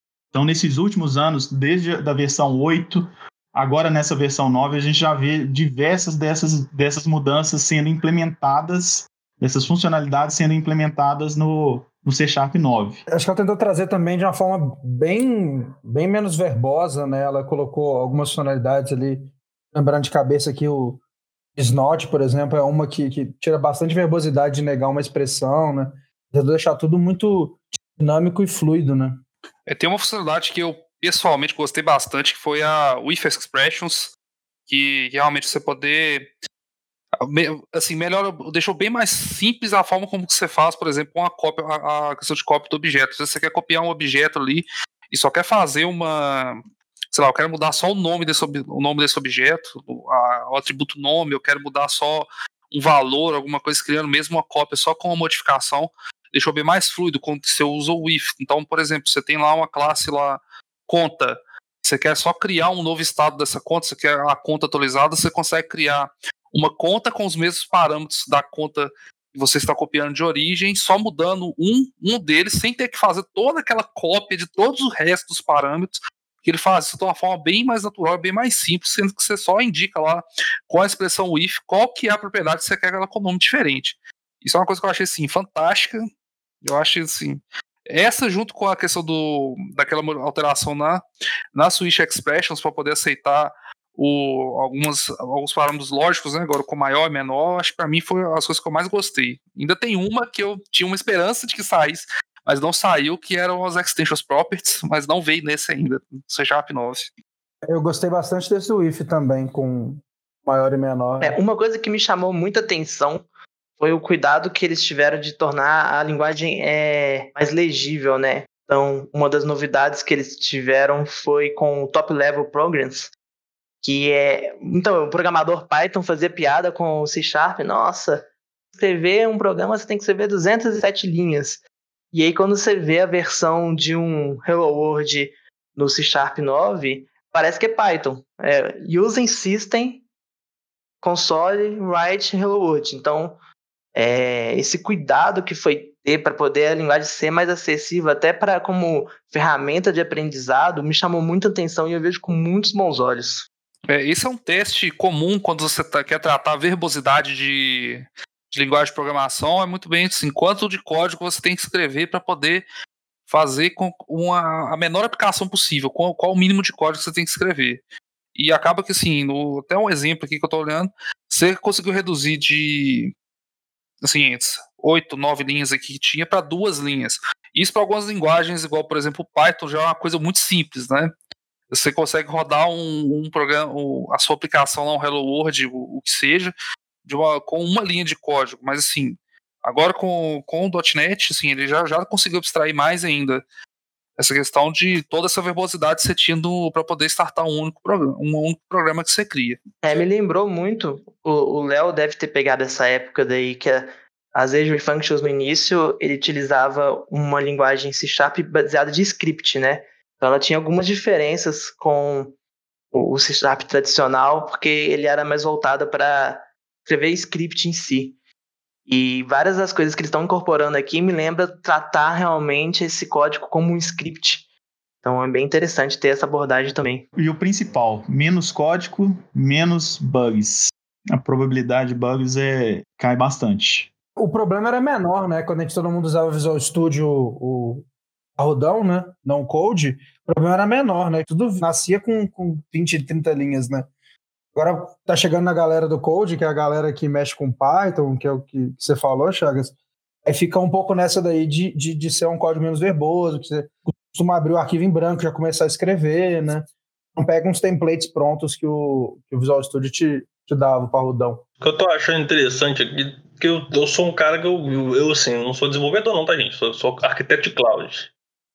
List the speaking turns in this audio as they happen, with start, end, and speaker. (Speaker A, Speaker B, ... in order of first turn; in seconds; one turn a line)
Speaker A: 0.3-13.0
Speaker B: 13.1-21.0
Speaker B: 21.6-29.2
Speaker C: 29.7-34.1
Speaker C: 34.7-36.3
Speaker C: 37.2-46.6
Speaker C: 47.1-86.1
Speaker C: 86.6-107.1
Speaker B: 107.7-111.4
Speaker D: 111.2-113.3
Speaker D: 113.8-123.1
Speaker D: 123.8-131.6
Speaker D: 132.1-140.0
Speaker D: 141.0-143.4
Speaker D: 143.9-153.5
Speaker C: 153.9-162.7
Speaker C: 163.3-167.8
Speaker C: 168.3-173.2
Speaker C: 174.0-181.1
Speaker C: 181.7-186.5
Speaker C: 187.1-193.4
Speaker C: 194.2-199.6
Speaker D: 199.8-212.3
Speaker D: 212.9-218.2
Speaker D: 218.9-224.4
Speaker D: 225.0-227.1
Speaker A: 227.2-233.9
Speaker B: 234.2-237.8
Speaker B: 238.4-243.9
Speaker B: 244.6-261.4
Speaker E: 261.6-268.1